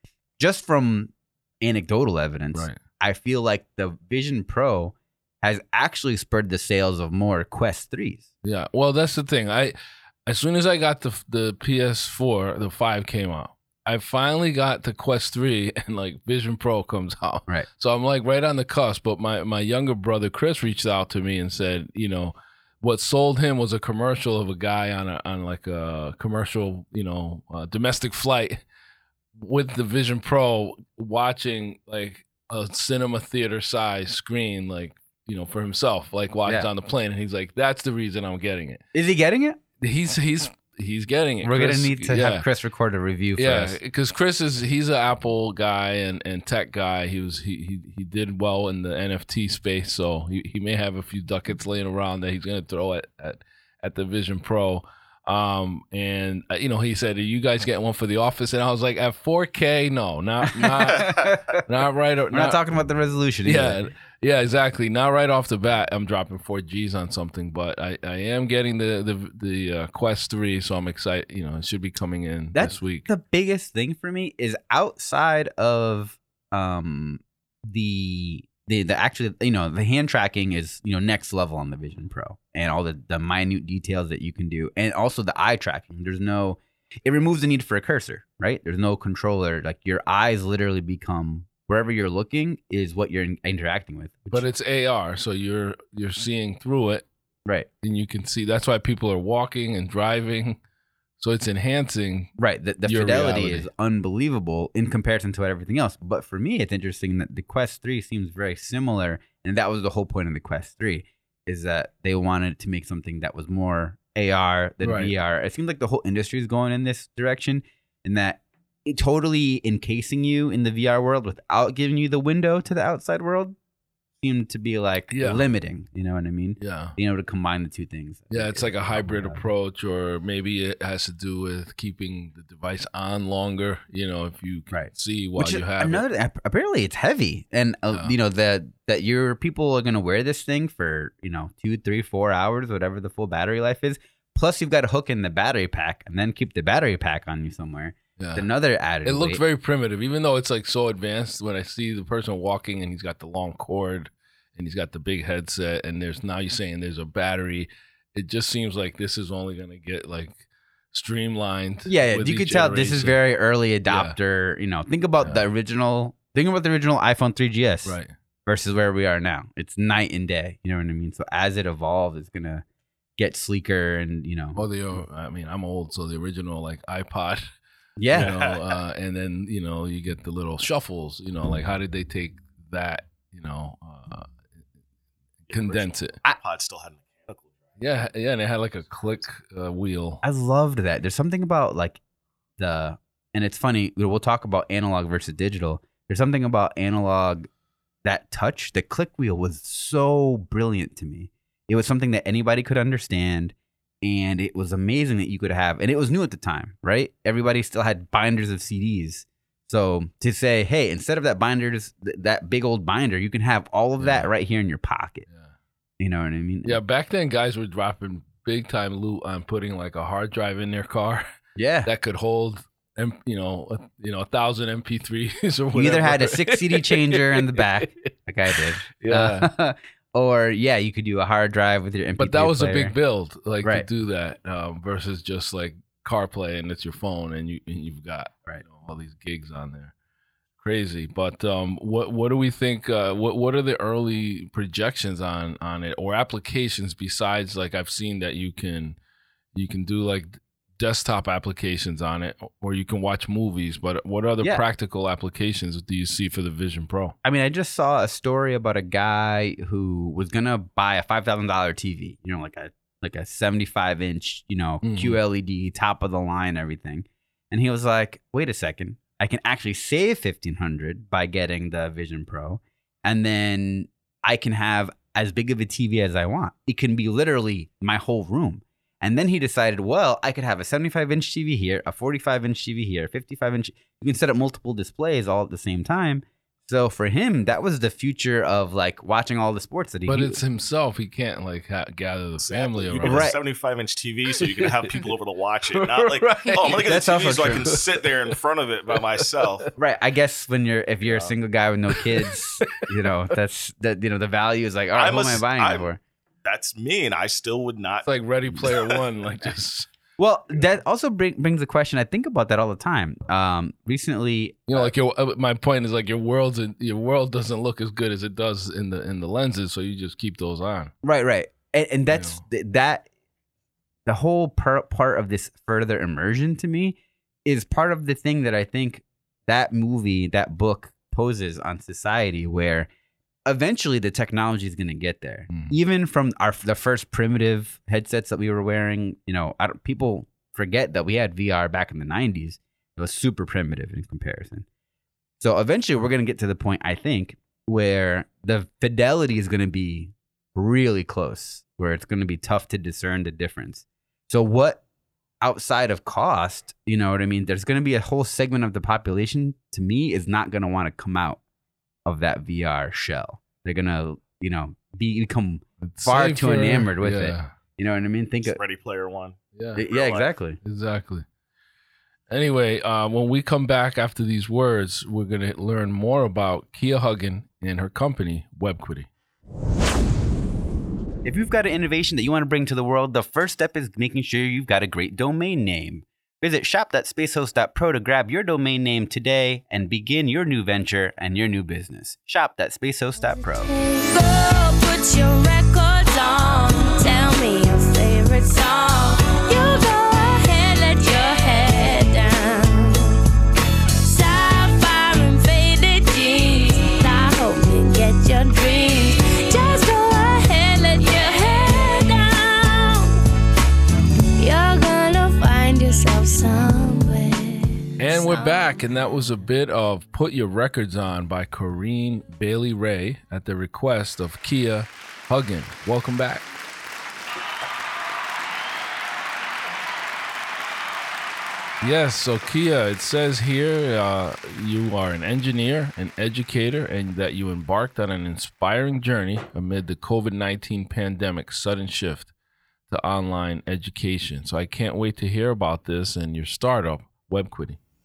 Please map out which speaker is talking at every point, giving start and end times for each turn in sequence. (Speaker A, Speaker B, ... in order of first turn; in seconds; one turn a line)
Speaker A: 0.4-8.3
Speaker B: 8.4-28.6
Speaker B: 29.4-38.8
Speaker A: 38.9-39.6
Speaker B: 39.8-42.4
Speaker A: 41.4-43.8
Speaker B: 43.4-62.6
Speaker A: 60.5-61.6
Speaker C: 60.9-61.4
Speaker A: 62.3-63.8
Speaker B: 63.4-73.1
Speaker A: 72.5-94.4
Speaker B: 94.3-97.0
Speaker B: 97.8-100.6
Speaker B: 101.2-102.3
Speaker A: 102.4-123.5
Speaker B: 102.8-103.7
Speaker B: 114.8-115.1
Speaker A: 124.2-129.4
Speaker B: 125.1-125.5
Speaker B: 126.6-127.0
Speaker B: 128.3-136.0
Speaker A: 134.7-149.4
Speaker B: 148.2-148.5
Speaker B: 149.0-163.2
Speaker A: 161.8-172.6
Speaker B: 163.9-164.2
Speaker B: 167.8-168.1
Speaker A: 173.2-174.6
Speaker B: 174.6-177.5
Speaker A: 178.0-178.5
Speaker B: 178.1-184.3
Speaker B: 185.5-186.2
Speaker C: 185.5-187.6
Speaker B: 187.8-190.2
Speaker A: 190.2-192.0
Speaker A: 192.6-197.5
Speaker A: 198.0-215.2
Speaker B: 214.0-214.3
Speaker A: 216.0-216.8
Speaker B: 216.6-221.2
Speaker A: 221.6-221.9
Speaker B: 221.8-227.6
Speaker A: 225.7-232.9
Speaker B: 228.5-229.5
Speaker B: 232.2-239.9
Speaker B: 240.6-249.0
Speaker B: 249.5-257.1
Speaker A: 257.2-290.4
Speaker B: 264.8-265.2
Speaker B: 290.1-293.3
Speaker C: 292.4-299.7
Speaker A: 293.0-293.4
Speaker B: 294.6-295.0
Speaker B: 295.8-298.3
Speaker A: 296.7-297.7
Speaker B: 298.9-299.6
Speaker A: 299.8-306.0
Speaker C: 301.1-301.3
Speaker B: 302.0-302.8
Speaker C: 304.9-305.9
Speaker C: 306.4-308.1
Speaker B: 308.0-309.9
Speaker C: 308.6-309.0
Speaker A: 310.2-314.9
Speaker B: 314.7-320.9
Speaker A: 321.0-323.1
Speaker B: 322.1-322.4
Speaker A: 324.1-332.9
Speaker A: 333.4-344.6
Speaker B: 335.5-335.7
Speaker A: 345.4-354.8
Speaker A: 355.4-361.4
Speaker A: 362.0-368.6
Speaker B: 365.8-367.5
Speaker C: 368.4-369.4
Speaker B: 369.6-369.8
Speaker A: 369.7-370.6
Speaker C: 369.9-370.3
Speaker B: 370.6-371.2
Speaker B: 372.3-379.1
Speaker A: 381.2-393.7
Speaker D: 393.6-403.1
Speaker D: 404.0-413.1
Speaker D: 414.4-418.8
Speaker B: 418.0-426.5
Speaker B: 431.8-442.3
Speaker B: 442.9-447.8